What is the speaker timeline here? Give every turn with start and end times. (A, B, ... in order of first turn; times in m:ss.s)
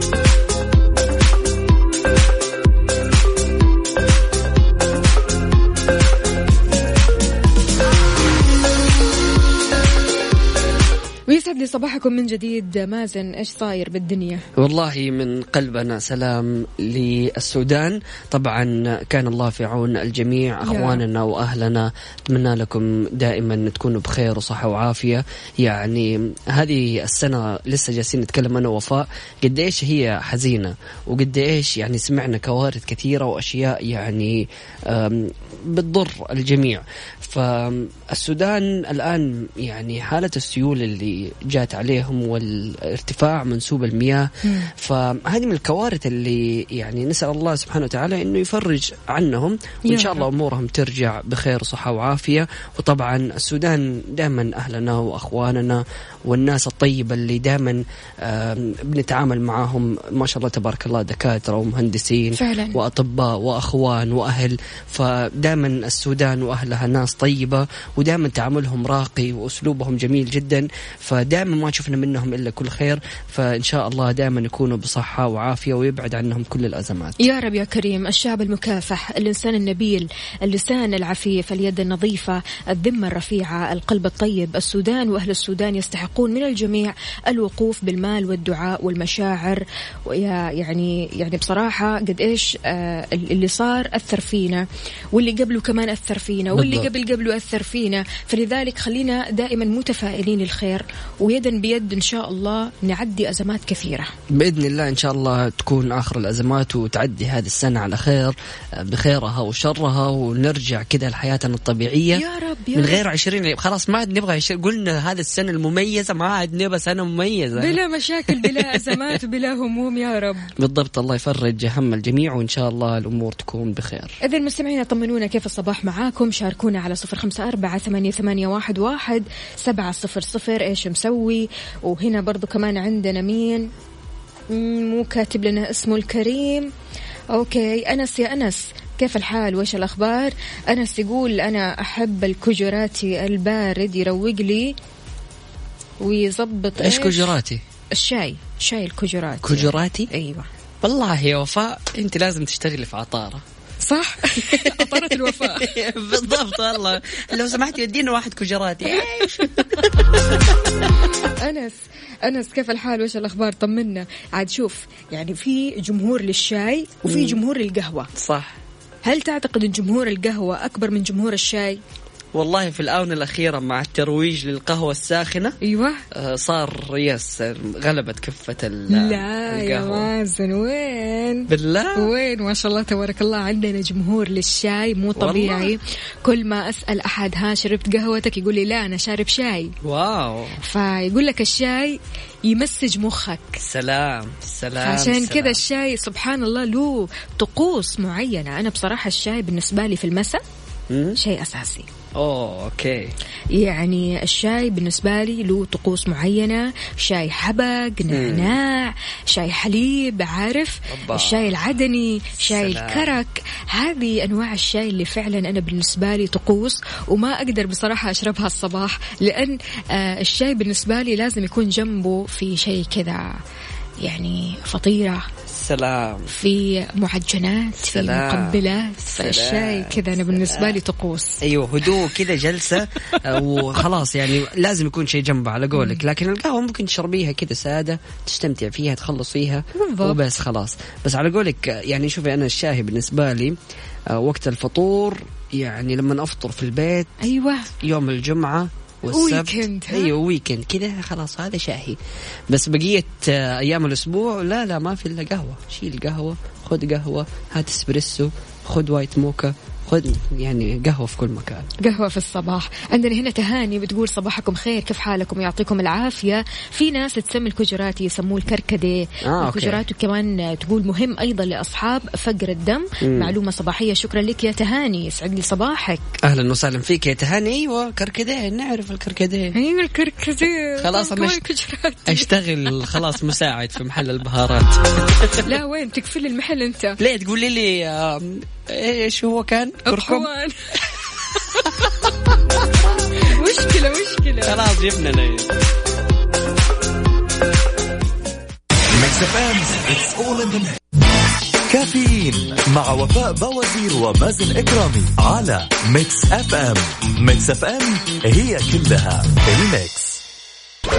0:11.3-0:14.4 A
0:14.6-1:17.2 B
0:20.6-0:21.0 A
0:44.4-0:44.7 A
0:49.8-0:50.2 A
1:02.3-1:02.8 A
1:17.2-1:44.1 A
1:36.5-1:36.9 B
1:44.3-1:52.2 B
1:52.1-1:53.0 A
1:52.7-1:59.0 B
1:57.5-2:00.5 A
2:00.6-2:04.2 B
2:04.2-2:13.7 A
2:14.5-2:16.7 A
2:17.3-2:24.8 A
2:26.0-2:27.3 A
2:26.8-2:27.6 B
2:27.9-2:30.5 A
2:29.4-2:30.1 B
2:30.8-2:33.4 B
2:33.8-2:35.7 A
2:34.3-2:40.9 B
2:41.4-2:48.1 A
2:47.1-2:47.4 B
2:48.1-2:48.6 B
2:49.0-2:51.8 A
2:52.3-2:55.6 B
2:55.6-2:56.0 A
2:56.1-3:00.1 B
2:58.9-3:09.7 A
3:01.5-3:02.1 B
3:05.2-3:05.7 B
3:09.8-3:10.6 B
3:10.6-3:13.6 A
3:13.6-3:15.6 B
3:14.8-3:20.4 A
3:20.9-3:21.2 B
3:21.2-3:21.9 A
3:22.2-3:23.1 B
3:23.5-3:43.4 A
3:28.1-3:28.6 B
3:30.9-3:31.8 B
3:32.4-3:33.1 B
3:44.0-3:45.3 A
3:45.5-3:46.3 B
3:46.3-3:51.4 A
3:47.8-3:50.8 B
3:51.4-4:03.6 B
3:59.7-4:00.2 A
4:04.1-4:07.2 B
4:07.2-4:07.7 A
4:07.8-4:21.7 B
4:09.1-4:10.1 A
4:21.8-4:36.2 A
4:29.2-4:29.8 B
4:33.0-4:33.3 B
4:36.2-4:39.6 B
4:39.5-4:42.4 A
4:40.8-4:41.4 B
4:42.0-4:45.5 B
4:45.4-4:47.0 A
4:47.0-4:50.3 B
4:49.8-4:50.8 A
4:50.8-4:52.8 B
4:53.2-4:54.6 A
4:54.4-4:55.5 B
4:58.9-5:00.8 C
5:01.7-5:10.2 C